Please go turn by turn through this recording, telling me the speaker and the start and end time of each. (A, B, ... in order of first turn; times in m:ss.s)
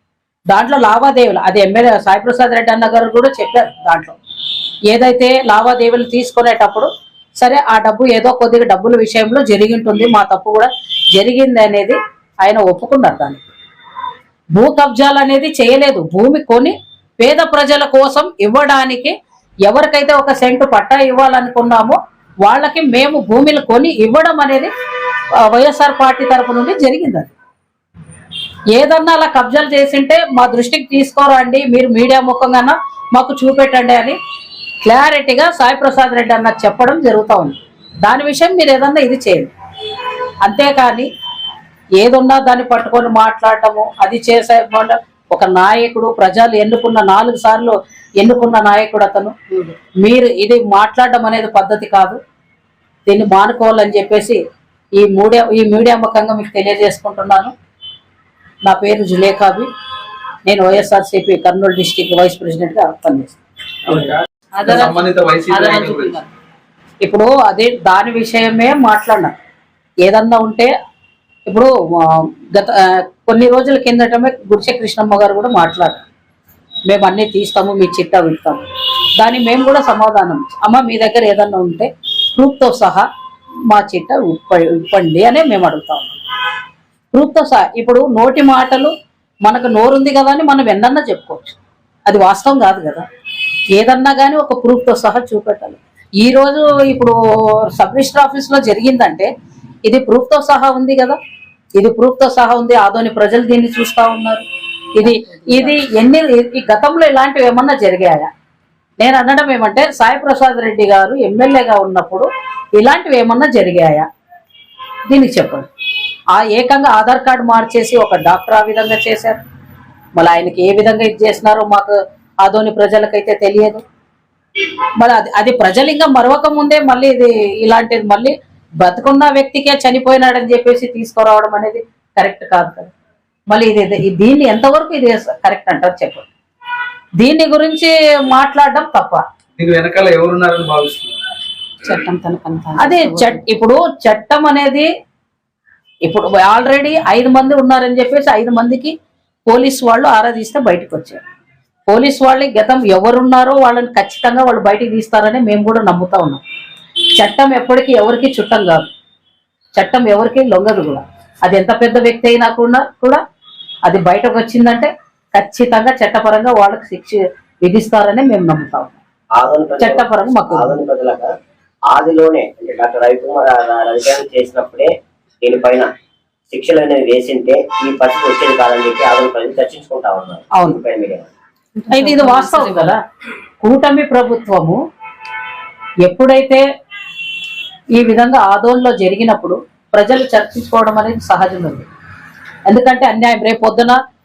0:00.5-0:04.2 A
0:04.9-0:06.9 A
0:07.4-0:13.4 A
0:14.5-0:24.7 A
0:25.4-0:27.3 A
0:28.7-0:34.2 A
0:34.8-0:39.5 A
0:40.4-0:41.1 A
0:42.0-0:49.4 A
0:50.0-0:52.2 A
0:53.1-0:54.4 A
0:55.0-0:57.5 A
0:58.6-0:59.7 A
1:00.5-1:03.4 A
1:03.9-1:06.2 B
1:04.6-1:06.3 C
1:07.0-1:09.4 A
1:10.0-1:10.7 A
1:11.5-1:16.0 A
1:16.9-1:23.1 A
1:23.7-1:26.2 A
1:27.1-1:28.9 A
1:29.4-1:33.1 A
1:33.8-1:39.3 A
1:39.9-1:41.2 A
1:41.8-1:44.4 A
1:45.0-1:48.3 A
1:45.0-1:45.7 C
1:49.0-1:54.1 A
1:55.1-1:55.7 A
1:56.3-1:59.4 A
2:00.2-2:03.8 A
2:05.0-2:12.9 A
2:13.5-2:16.3 A
2:17.2-2:19.2 A
2:19.6-2:21.3 B
2:21.8-2:23.4 C
2:22.8-2:24.9 A
2:26.0-2:28.9 A
2:29.5-2:31.2 A
2:31.9-2:36.4 A
2:37.2-2:38.9 A
2:39.8-2:43.2 A
2:43.9-2:49.0 A
2:49.4-2:51.3 D
2:49.8-2:50.8 A
2:51.9-2:54.9 D
2:55.4-2:55.9 D
2:56.5-3:01.3 D
3:01.8-3:03.0 C
3:01.9-3:03.0 A
3:03.6-3:04.8 A
3:06.0-3:06.6 A
3:08.0-3:11.9 A
3:12.7-3:14.0 A